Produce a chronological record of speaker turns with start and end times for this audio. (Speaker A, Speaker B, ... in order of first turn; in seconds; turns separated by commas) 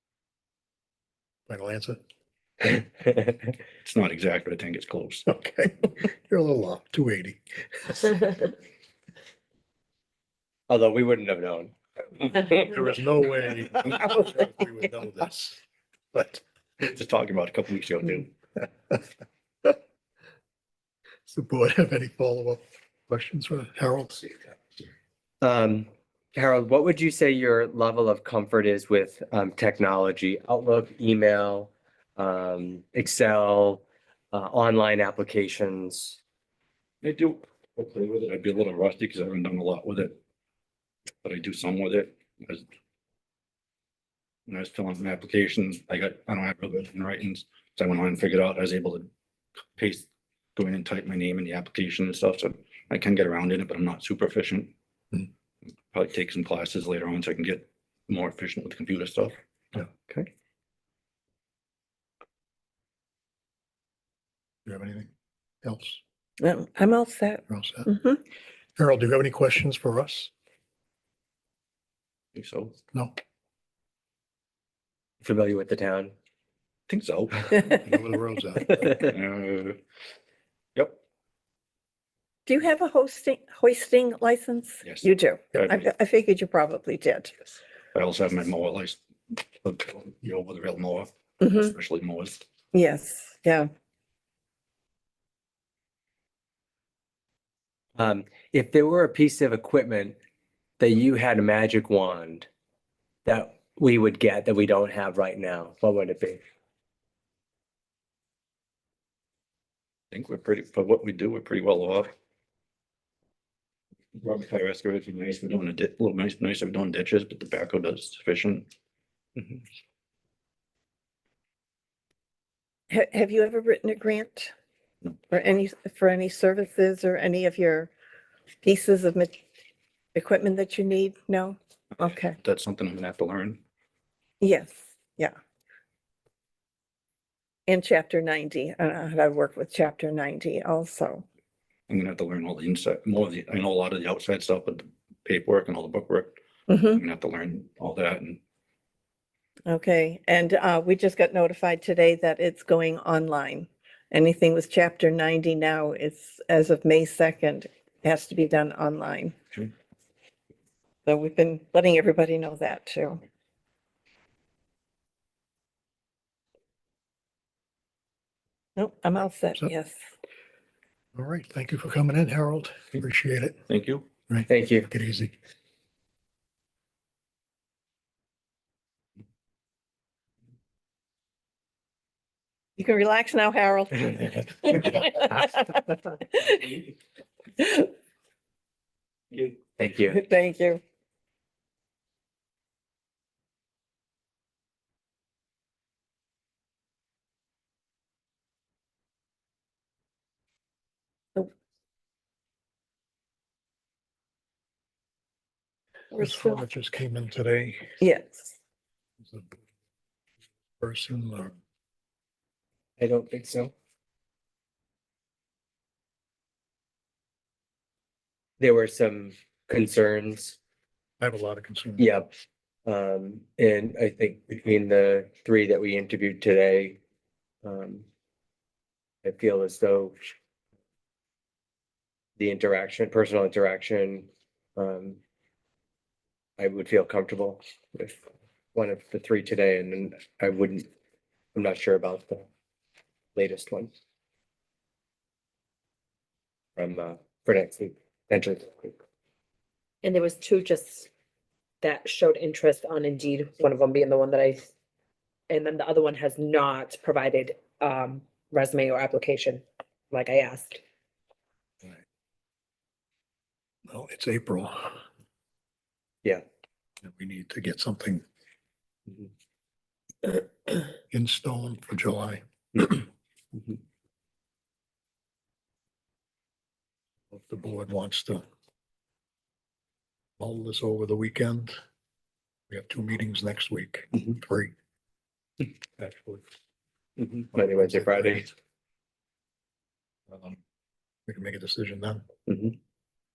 Speaker A: 1.5-2.0, Speaker B: 3.8-5.2, Speaker A: 5.2-8.4, Speaker C: 10.7-11.7, Speaker A: 12.5-15.6, Speaker A: 16.1-16.4, Speaker B: 16.8-18.3, Speaker A: 21.3-24.4, Speaker C: 25.4-36.2, Speaker B: 37.0-40.1, Speaker B: 41.2-42.6, Speaker B: 44.5-49.1, Speaker B: 49.8-54.7, Speaker B: 55.9-59.4, Speaker A: 64.7-65.1, Speaker A: 65.6-66.0, Speaker D: 66.4-68.2, Speaker A: 67.5-67.9, Speaker A: 68.8-70.3, Speaker B: 72.3-72.7, Speaker C: 75.2-76.1, Speaker B: 76.9-78.0, Speaker A: 77.8-79.0, Speaker B: 79.0-79.8, Speaker D: 82.5-87.4, Speaker B: 84.8-85.9, Speaker B: 87.9-89.0, Speaker B: 89.6-92.4, Speaker D: 91.4-91.7, Speaker D: 92.7-93.7, Speaker C: 98.0-100.2, Speaker C: 100.8-102.5, Speaker C: 103.2-106.4, Speaker B: 110.1-112.1, Speaker B: 114.2-118.7, Speaker B: 119.3-119.6, Speaker D: 122.9-124.5, Speaker D: 125.3-127.9, Speaker D: 128.6-129.4, Speaker D: 130.1-132.3, Speaker B: 132.4-133.6, Speaker D: 134.4-135.3, Speaker D: 137.7-141.2, Speaker B: 141.9-146.4, Speaker D: 146.7-147.0, Speaker B: 146.9-148.4, Speaker D: 149.7-159.4, Speaker D: 161.1-163.2, Speaker D: 168.8-170.0, Speaker A: 171.1-173.6, Speaker B: 173.7-174.1, Speaker A: 174.3-175.3, Speaker C: 174.5-174.9, Speaker D: 182.8-186.9, Speaker D: 187.6-187.9, Speaker C: 189.8-190.2, Speaker D: 190.1-190.8, Speaker D: 206.1-206.6, Speaker A: 206.2-207.9, Speaker D: 208.0-208.5, Speaker A: 209.2-209.6, Speaker A: 210.8-211.5, Speaker C: 213.0-213.7, Speaker C: 218.6-220.6, Speaker A: 221.2-222.1, Speaker C: 222.0-222.3, Speaker C: 222.8-227.0, Speaker C: 227.6-228.1, Speaker C: 229.2-230.2, Speaker C: 232.4-235.2, Speaker C: 236.6-238.2, Speaker C: 238.7-240.9, Speaker C: 241.5-242.5, Speaker C: 243.3-243.9, Speaker C: 246.8-249.0, Speaker E: 250.0-251.1, Speaker E: 251.8-254.7, Speaker E: 255.5-260.8, Speaker A: 263.9-265.0, Speaker A: 267.0-268.2, Speaker A: 271.1-273.1, Speaker A: 277.3-278.4, Speaker A: 280.4-281.8, Speaker A: 282.7-284.7, Speaker A: 286.0-286.4, Speaker C: 287.5-288.4, Speaker A: 287.5-288.5, Speaker A: 290.3-290.6, Speaker A: 291.3-292.2